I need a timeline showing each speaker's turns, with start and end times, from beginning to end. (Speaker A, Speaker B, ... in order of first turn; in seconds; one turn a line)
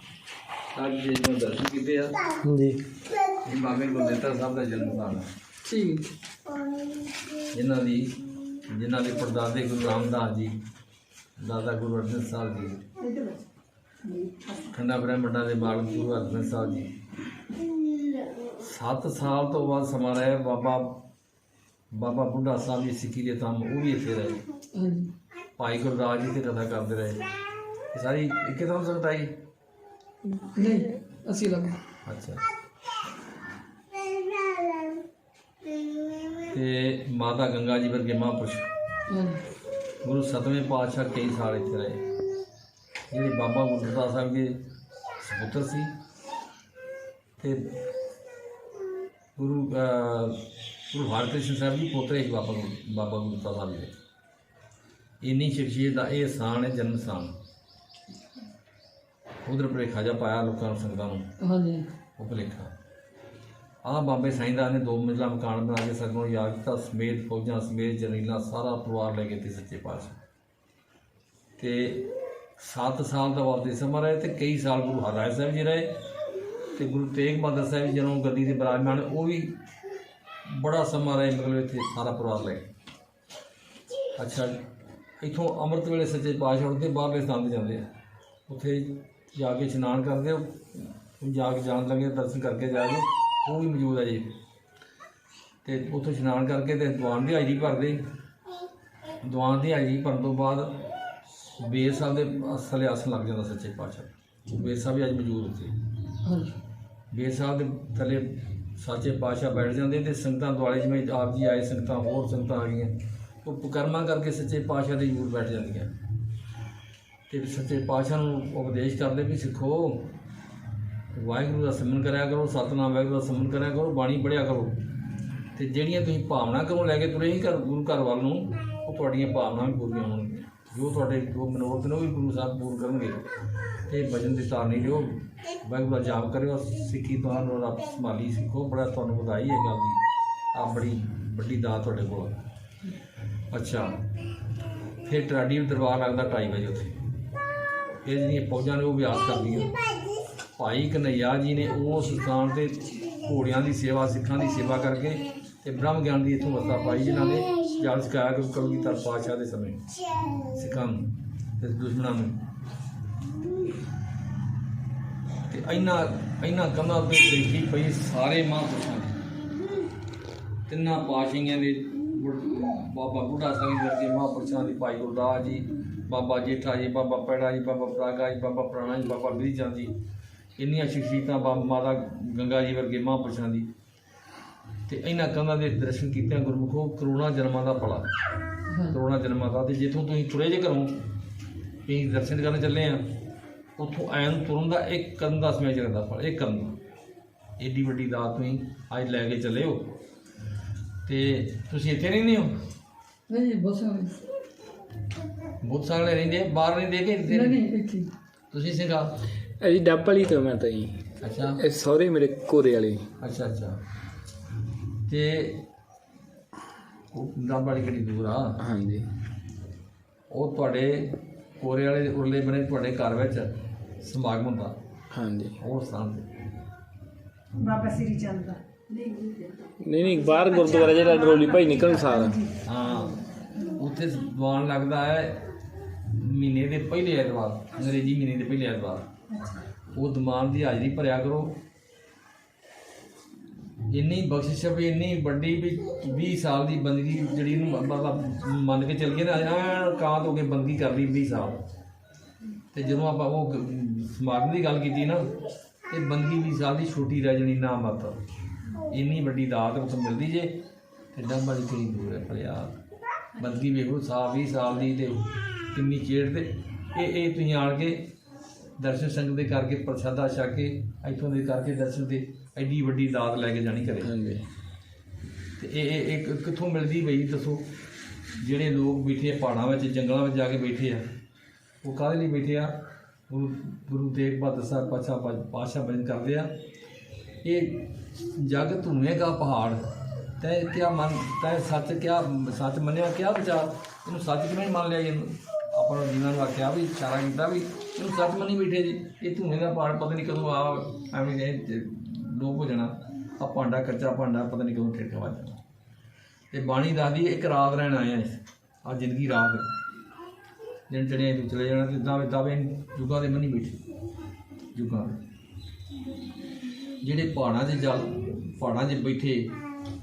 Speaker A: 0.8-2.3
Speaker A: 3.4-5.3
Speaker B: 5.7-6.1
Speaker A: 7.5-8.2
Speaker A: 8.7-10.6
Speaker A: 11.4-12.8
Speaker C: 13.0-13.4
Speaker A: 14.7-16.9
Speaker A: 18.6-21.0
Speaker A: 21.9-24.4
Speaker B: 24.8-25.1
Speaker A: 25.6-27.2
Speaker A: 27.9-29.3
Speaker B: 30.3-31.8
Speaker A: 32.0-32.4
Speaker A: 36.5-38.7
Speaker B: 39.1-39.4
Speaker A: 40.0-42.0
Speaker A: 43.1-44.6
Speaker A: 45.2-45.9
Speaker A: 49.4-53.9
Speaker A: 55.2-57.4
Speaker A: 59.5-61.3
Speaker B: 61.4-61.9
Speaker A: 62.2-62.7
Speaker A: 63.8-70.2
Speaker A: 71.6-72.1
Speaker A: 72.6-75.9
Speaker A: 76.8-79.6
Speaker A: 80.5-82.7
Speaker A: 84.2-84.5
Speaker A: 85.2-87.8
Speaker A: 88.5-94.3
Speaker A: 95.7-98.0
Speaker A: 99.2-100.7
Speaker A: 101.6-105.7
Speaker B: 106.2-106.6
Speaker A: 107.1-112.9
Speaker A: 113.4-115.9
Speaker A: 117.3-120.0
Speaker A: 121.2-124.8
Speaker A: 125.6-133.3
Speaker A: 133.9-140.0
Speaker A: 140.6-142.4
Speaker A: 143.5-144.0
Speaker A: 145.0-147.0
Speaker A: 148.0-149.8
Speaker A: 150.6-159.8
Speaker A: 160.4-162.4
Speaker A: 165.5-169.2
Speaker A: 170.7-179.9
Speaker A: 180.6-183.7
Speaker A: 184.9-188.1
Speaker A: 188.9-190.9
Speaker A: 191.9-193.0
Speaker A: 193.8-196.8
Speaker A: 197.6-199.9
Speaker A: 201.1-202.5
Speaker B: 203.3-204.2
Speaker A: 205.6-207.6
Speaker B: 207.3-208.1
Speaker A: 208.5-209.1
Speaker D: 209.6-211.0
Speaker A: 211.2-211.6
Speaker D: 211.6-213.0
Speaker A: 213.2-213.8
Speaker A: 215.1-215.7
Speaker A: 217.1-218.5
Speaker D: 218.6-219.1
Speaker A: 220.3-224.7
Speaker D: 225.1-225.5
Speaker A: 225.6-226.3
Speaker C: 227.6-229.5
Speaker D: 229.8-232.4
Speaker C: 230.1-232.5
Speaker A: 232.6-235.4
Speaker A: 236.1-239.1
Speaker A: 239.9-241.5
Speaker A: 243.9-251.6
Speaker A: 252.7-255.3
Speaker A: 255.9-258.2
Speaker A: 258.9-260.5
Speaker A: 261.1-262.8
Speaker A: 263.4-268.0
Speaker A: 268.8-274.1
Speaker D: 274.0-274.4
Speaker A: 275.6-277.6
Speaker A: 278.4-281.0
Speaker A: 281.8-282.7
Speaker A: 283.3-286.5
Speaker A: 287.4-289.8
Speaker A: 290.4-305.6
Speaker A: 306.5-309.7
Speaker A: 310.9-313.8
Speaker A: 314.7-315.2
Speaker A: 317.0-319.6